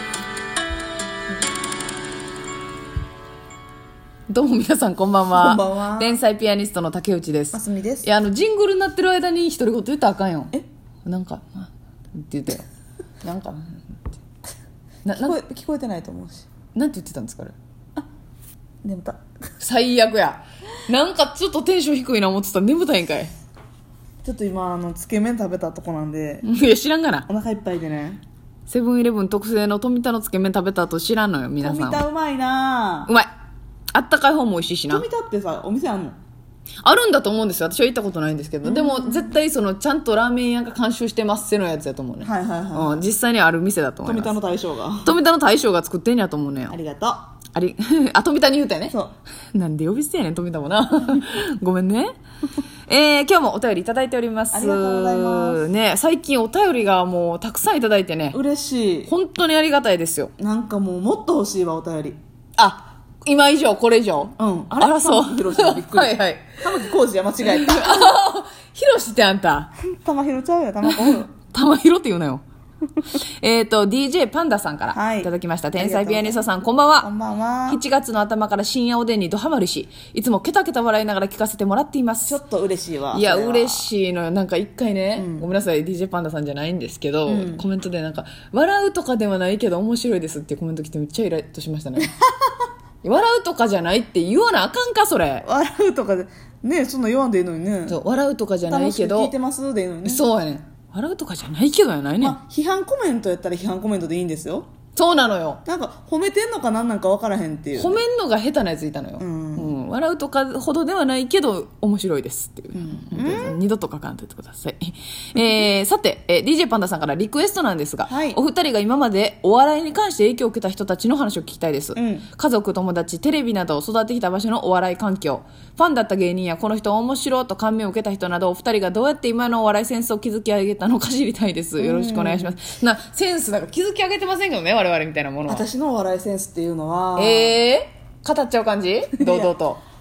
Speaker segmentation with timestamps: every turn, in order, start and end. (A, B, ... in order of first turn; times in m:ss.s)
0:04.3-0:10.5 A
0:05.3-0:06.2 B
0:07.5-0:08.1 B
0:11.0-0:12.6 A
0:13.2-0:13.8 A
0:15.0-0:15.4 A
0:15.1-0:16.5 B
0:16.7-0:17.6 A
0:18.8-0:19.2 B
0:19.6-0:23.3 A
0:24.2-0:26.4 B
0:26.4-0:27.3 A
0:27.3-0:28.2 B
0:28.7-0:32.0 A
0:31.6-0:33.1 B
0:33.9-0:35.0 A
0:34.9-0:36.2 B
0:36.8-0:44.3 A
0:38.6-0:39.4 B
0:42.2-0:43.0 B
0:44.0-0:45.1 B
0:45.0-0:46.8 A
0:46.7-0:47.3 B
0:47.5-0:49.0 A
0:49.5-0:52.2 A
0:52.9-0:58.4 A
0:54.5-0:55.6 B
0:58.3-0:59.1 B
0:59.1-1:00.3 A
1:00.4-1:02.2 B
1:02.6-1:06.6 A
1:04.4-1:08.2 B
1:07.4-1:09.7 A
1:09.8-1:11.3 B
1:10.8-1:12.4 A
1:13.1-1:17.1 A
1:14.9-1:16.4 B
1:17.0-1:17.8 B
1:17.7-1:22.4 A
1:22.3-1:23.9 B
1:23.1-1:32.1 A
1:25.2-1:25.5 B
1:27.3-1:27.6 B
1:32.0-1:32.5 B
1:33.0-1:35.4 A
1:35.4-1:38.0 B
1:37.9-1:39.3 A
1:38.7-1:40.2 B
1:40.0-1:42.4 A
1:42.2-1:44.7 B
1:45.0-1:45.6 A
1:45.6-1:48.0 B
1:47.8-2:15.6 A
1:49.2-1:49.7 B
1:52.8-1:53.6 B
1:58.1-1:58.4 B
2:02.0-2:02.3 B
2:11.8-2:12.6 B
2:15.5-2:17.6 B
2:17.2-2:19.8 A
2:19.2-2:19.6 B